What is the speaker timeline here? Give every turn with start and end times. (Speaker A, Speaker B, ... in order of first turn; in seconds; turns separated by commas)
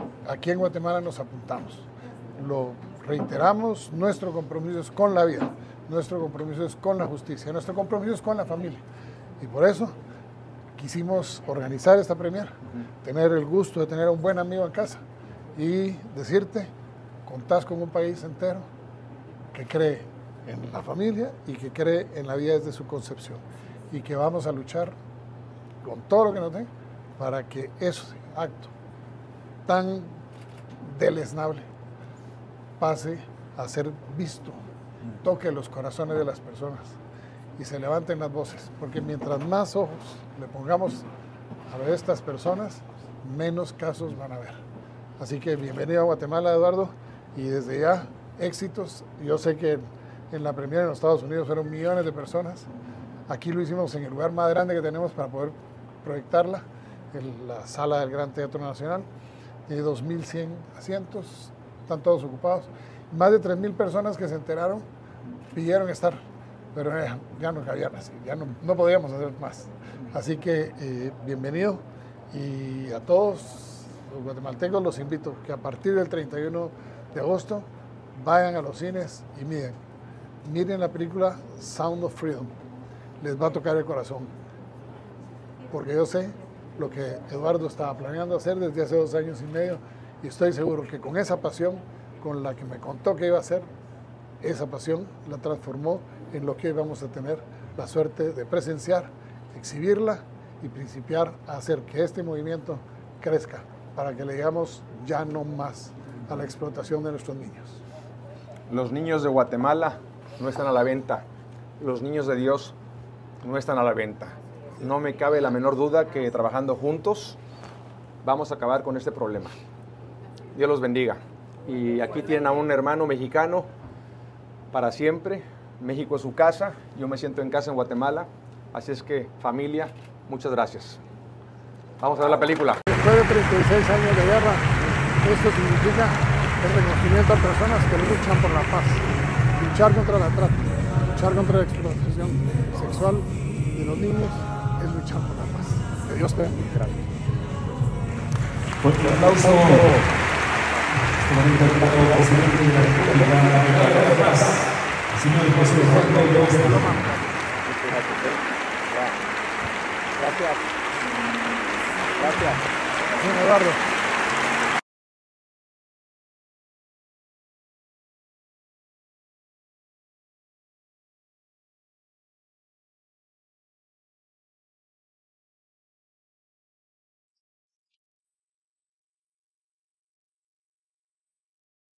Speaker A: 0.3-8.8, Speaker A: 9.4-9.9, Speaker A: 10.8-12.5, Speaker A: 13.0-15.0, Speaker A: 15.6-16.7, Speaker A: 17.3-18.7, Speaker A: 19.5-24.9, Speaker A: 25.8-28.7, Speaker A: 29.7-30.1, Speaker A: 30.9-31.7, Speaker A: 32.8-34.6, Speaker A: 35.2-37.0, Speaker A: 37.6-41.1, Speaker A: 41.7-44.6, Speaker A: 45.2-52.7, Speaker A: 53.3-59.1, Speaker A: 59.7-64.8, Speaker A: 65.5-66.2, Speaker A: 66.7-79.7, Speaker A: 80.4-82.5, Speaker A: 83.2-84.3, Speaker A: 85.7-93.7, Speaker A: 94.4-107.8, Speaker B: 108.7-111.2, Speaker B: 111.8-112.8, Speaker B: 113.4-117.4, Speaker B: 118.2-119.5, Speaker B: 120.5-123.7, Speaker B: 124.7-131.0, Speaker B: 132.0-132.8, Speaker A: 132.9-134.7, Speaker A: 135.2-139.0, Speaker A: 139.6-147.0, Speaker C: 148.8-150.0, Speaker C: 151.2-154.3, Speaker B: 153.5-154.4, Speaker C: 155.2-156.5, Speaker B: 155.5-159.2, Speaker B: 160.2-160.6, Speaker B: 162.2-162.6, Speaker A: 163.2-163.8